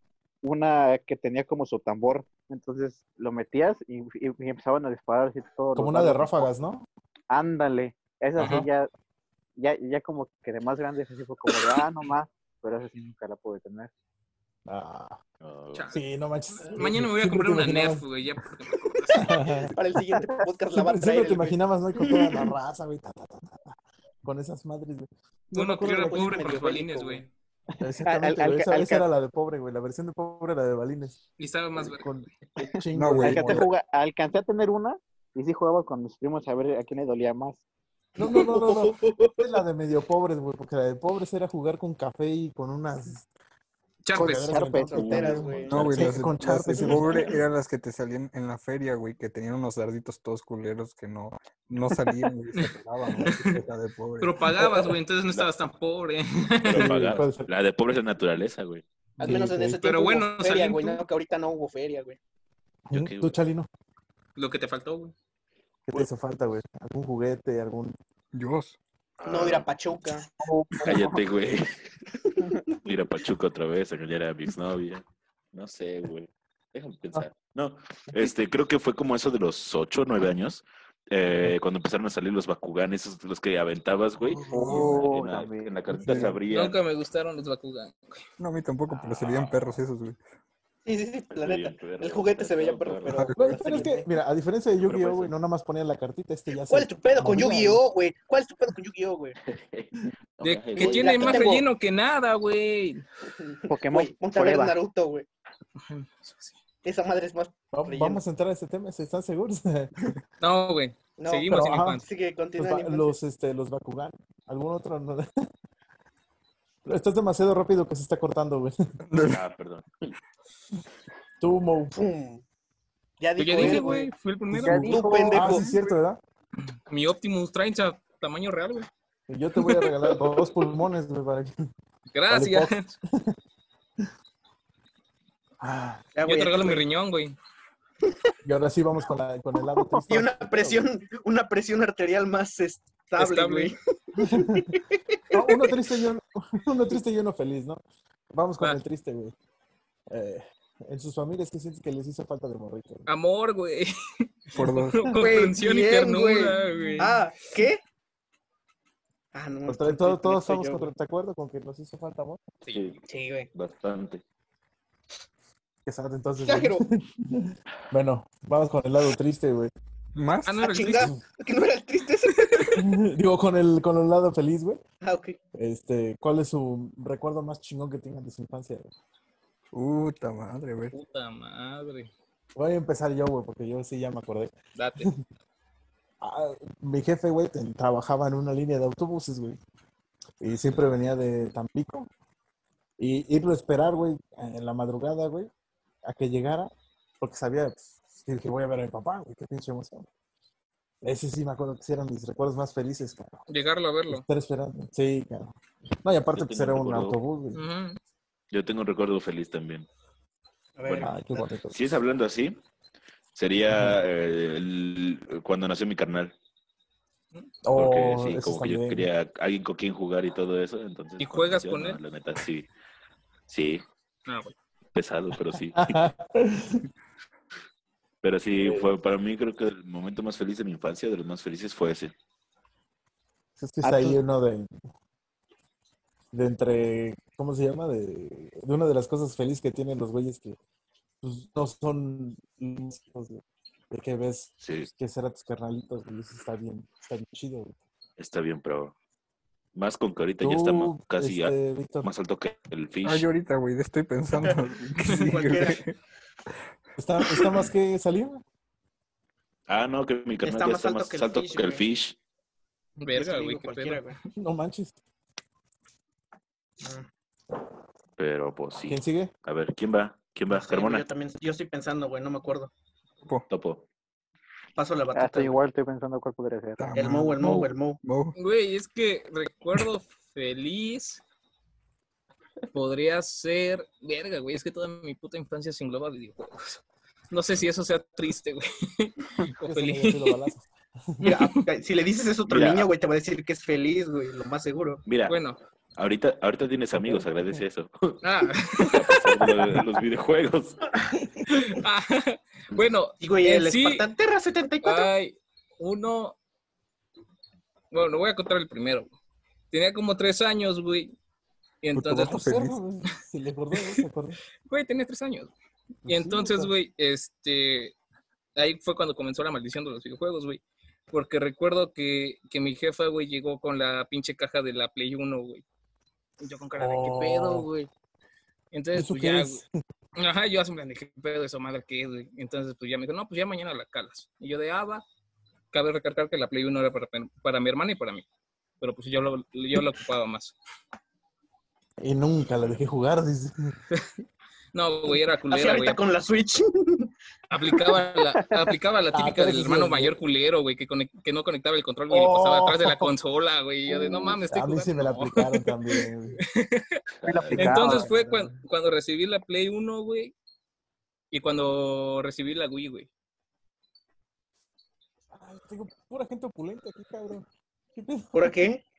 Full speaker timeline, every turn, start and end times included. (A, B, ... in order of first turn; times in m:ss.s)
0:00.4-0:06.5 A
0:05.8-0:06.8 B
0:07.3-0:08.9 A
0:08.4-0:08.7 B
0:09.6-0:13.9 A
0:14.7-0:15.2 B
0:15.4-0:15.9 C
0:15.7-0:16.0 D
0:15.9-0:18.0 B
0:16.7-0:19.6 D
0:19.1-0:22.6 E
0:19.1-0:19.8 B
0:20.7-0:26.5 B
0:25.5-0:27.3 D
0:25.9-0:27.2 E
0:27.8-0:31.2 B
0:28.0-0:29.0 A
0:31.4-0:32.1 D
0:31.8-0:33.7 B
0:33.0-0:33.7 F
0:33.2-0:37.6 A
0:38.2-0:39.6 E
0:38.2-0:43.3 B
0:44.0-0:44.6 D
0:44.1-0:47.4 B
0:44.2-0:45.3 A
0:44.9-0:46.1 E
0:44.9-0:46.0 C
0:45.7-0:54.3 F
0:46.8-0:47.3 E
0:52.6-0:53.6 D
0:54.2-0:57.0 D
0:56.6-0:58.8 C
0:56.7-0:57.5 B
0:59.2-1:02.2 E
0:59.2-0:59.8 B
0:59.8-1:01.0 D
1:02.9-1:03.7 B
1:02.9-1:03.3 C
1:04.4-1:05.1 D
1:05.9-1:08.0 B
1:08.3-1:08.8 F
1:09.2-1:09.7 C
1:09.3-1:10.3 E
1:10.4-1:11.2 A
1:10.8-1:11.9 C
1:12.8-1:26.8 C
1:24.2-1:25.0 B
1:24.5-1:25.0 F
1:24.5-1:26.4 A
1:26.0-1:26.3 B
1:26.5-1:28.2 D
1:28.4-1:30.2 F
1:28.9-1:29.8 C
1:30.9-1:34.1 E
1:31.3-1:33.3 C
1:33.1-1:33.4 F
1:33.3-1:37.8 B
1:34.8-1:35.3 C
1:36.6-1:39.4 E
1:39.4-1:41.5 C
1:40.4-1:43.0 D
1:40.8-1:41.6 E
1:43.3-1:45.3 E
1:43.7-1:44.8 A
1:45.8-1:46.6 D
1:46.8-1:48.2 E
1:47.7-1:50.2 B
1:50.4-1:52.0 D
1:51.2-1:53.2 E
1:51.5-1:52.0 B
1:52.6-1:55.3 B
1:56.8-1:58.8 B
1:59.1-1:59.4 F
1:59.3-1:59.9 C
2:01.4-2:02.0 B
2:02.0-2:02.4 E
2:03.2-2:04.1 E
2:03.4-2:05.0 D
2:04.5-2:05.7 A
2:04.6-2:06.2 B
2:04.8-2:05.7 E
2:06.9-2:08.9 D
2:09.3-2:11.5 B
2:12.1-2:12.9 D
2:12.3-2:13.3 B
2:15.6-2:16.1 B
2:16.2-2:16.8 E
2:16.2-2:17.4 D
2:18.4-2:20.9 B
2:19.9-2:25.9 E
2:23.2-2:23.7 D
2:24.2-2:24.7 B
2:25.3-2:27.8 B
2:28.3-2:29.3 B
2:30.1-2:33.1 B
2:33.1-2:37.2 D
2:34.5-2:35.0 F
2:35.2-2:37.8 E
2:39.3-2:40.9 E
2:39.7-2:42.4 B
2:42.6-2:43.0 D
2:42.7-2:43.0 C
2:43.1-2:43.5 E
2:43.5-2:44.2 C
2:45.9-2:49.7 B
2:46.4-2:46.8 E
2:50.2-2:50.6 F
2:50.4-2:51.1 D
2:50.6-2:52.8 E
2:52.8-2:54.8 B
2:55.0-2:55.4 E
2:55.6-2:58.9 B
2:59.7-3:00.9 F
3:00.9-3:02.1 D
3:02.6-3:05.2 B
3:04.8-3:05.1 D
3:06.2-3:09.6 B
3:10.4-3:12.1 B
3:13.0-3:15.5 B
3:16.0-3:20.1 B
3:21.0-3:23.5 B
3:23.5-3:24.3 D
3:24.1-3:27.6 B
3:26.3-3:27.2 C
3:27.5-3:28.0 D
3:28.5-3:29.9 C
3:30.8-3:31.5 E
3:30.9-3:31.1 C
3:31.0-3:31.8 B
3:31.7-3:32.6 C
3:33.4-3:36.3 C
3:33.7-3:34.0 B
3:37.6-3:39.1 B
3:37.7-3:42.7 C
3:41.2-3:42.0 D
3:43.5-3:43.8 C
3:44.3-3:44.6 D
3:44.9-3:46.0 C
3:45.5-3:46.9 B
3:48.2-3:52.1 C
3:53.6-3:54.7 B
3:53.8-3:54.2 A
3:56.3-4:00.6 B
4:01.2-4:07.8 B
4:04.6-4:04.9 C
4:08.2-4:09.0 C
4:09.8-4:13.3 C
4:10.4-4:12.1 B
4:13.0-4:16.0 F
4:14.4-4:15.8 E
4:17.0-4:18.4 B
4:17.2-4:17.5 E
4:19.7-4:22.2 C
4:20.4-4:21.9 E
4:23.0-4:24.0 D
4:23.1-4:24.2 E
4:24.4-4:25.0 B
4:26.8-4:27.1 E
4:28.2-4:31.0 C
4:28.8-4:29.3 B
4:30.5-4:32.7 E
4:33.5-4:33.8 C
4:34.8-4:35.6 E
4:35.1-4:36.9 A
4:36.8-4:38.4 F
4:37.0-4:38.0 E
4:38.4-4:41.2 D
4:42.7-4:50.5 D
4:49.6-4:51.3 B
4:51.2-4:51.6 D
4:51.2-4:55.0 E
4:52.5-4:52.9 C
4:55.1-4:55.4 C
4:55.3-4:55.6 D
4:56.0-4:58.2 C
4:56.9-4:57.6 B
4:58.2-4:59.4 D
4:59.0-5:00.8 C
5:01.1-5:01.5 B
5:01.5-5:04.1 D
5:03.2-5:05.1 E
5:04.8-5:06.4 D
5:07.9-5:09.1 D
5:09.7-5:11.1 D
5:11.8-5:12.5 D
5:11.9-5:12.8 F
5:12.2-5:14.4 B
5:14.7-5:15.5 D
5:16.0-5:16.7 B
5:16.1-5:18.0 D
5:18.6-5:25.6 D
5:26.4-5:27.9 D
5:26.8-5:27.7 B
5:28.7-5:29.6 D
5:28.9-5:29.7 B
5:30.2-5:35.0 D
5:35.7-5:38.2 D
5:38.8-5:40.6 D
5:42.0-5:43.7 B
5:44.7-5:46.0 D
5:45.5-5:47.1 E
5:47.5-5:57.0 D
5:49.1-5:50.2 B
5:52.1-5:53.1 B
5:54.1-5:56.4 B
5:57.2-5:57.6 C
5:57.2-5:58.1 A
5:57.5-5:58.5 B
5:57.6-6:00.3 D
6:01.3-6:03.1 D
6:05.3-6:08.6 B
6:08.3-6:08.8 E